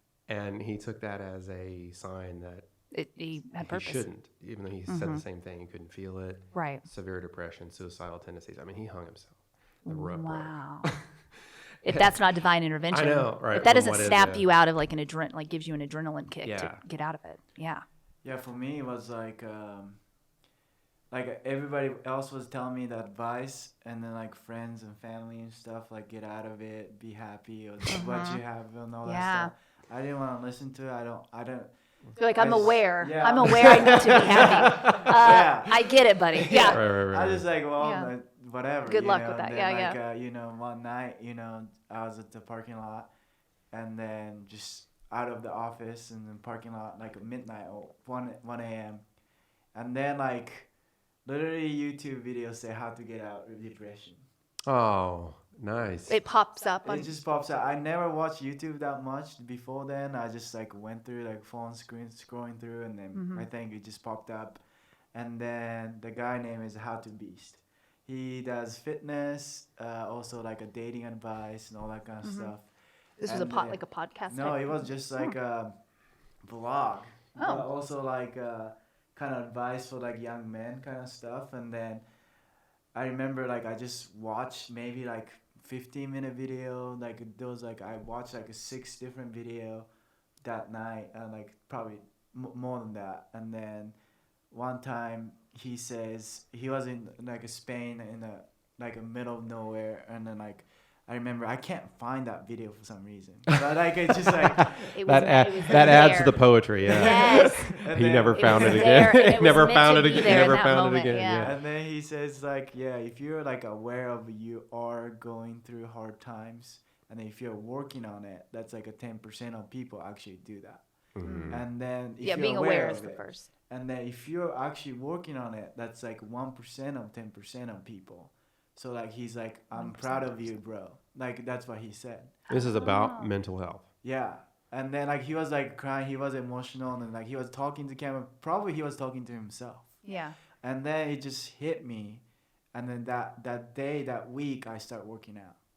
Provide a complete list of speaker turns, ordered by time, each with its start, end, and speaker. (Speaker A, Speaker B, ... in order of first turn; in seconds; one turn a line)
Speaker A: 0.3-2.7
Speaker B: 2.9-4.1
Speaker A: 3.5-11.0
Speaker B: 4.9-5.2
Speaker B: 6.5-6.8
Speaker B: 9.8-10.9
Speaker B: 11.8-17.8
Speaker A: 12.9-14.5
Speaker A: 16.4-16.8
Speaker C: 18.2-20.0
Speaker C: 21.1-31.7
Speaker B: 27.9-28.4
Speaker B: 29.0-29.5
Speaker B: 32.2-36.8
Speaker C: 32.2-43.1
Speaker A: 36.7-37.5
Speaker B: 37.8-38.1
Speaker B: 38.8-40.0
Speaker C: 43.7-49.0
Speaker C: 49.7-50.7
Speaker C: 51.2-54.2
Speaker A: 54.7-56.2
Speaker B: 56.1-57.1
Speaker C: 56.8-64.6
Speaker B: 63.1-63.5
Speaker C: 65.1-72.7
Speaker B: 72.2-72.5
Speaker B: 73.2-75.3
Speaker C: 73.2-75.8
Speaker C: 76.4-82.0
Speaker B: 77.4-77.7
Speaker C: 82.9-89.9
Speaker C: 90.4-94.0
Speaker C: 94.5-104.9
Speaker A: 104.6-111.6
Speaker B: 104.9-111.5
Speaker C: 105.7-106.1
Speaker C: 106.9-109.2
Speaker C: 110.3-110.6
Speaker C: 111.3-120.8
Speaker A: 121.2-121.6
Speaker B: 121.2-121.7
Speaker C: 121.5-132.4
Speaker B: 122.2-123.5
Speaker B: 129.7-130.6
Speaker B: 132.5-133.3
Speaker A: 132.5-133.9
Speaker C: 134.0-140.0
Speaker B: 140.0-140.4
Speaker C: 140.6-145.6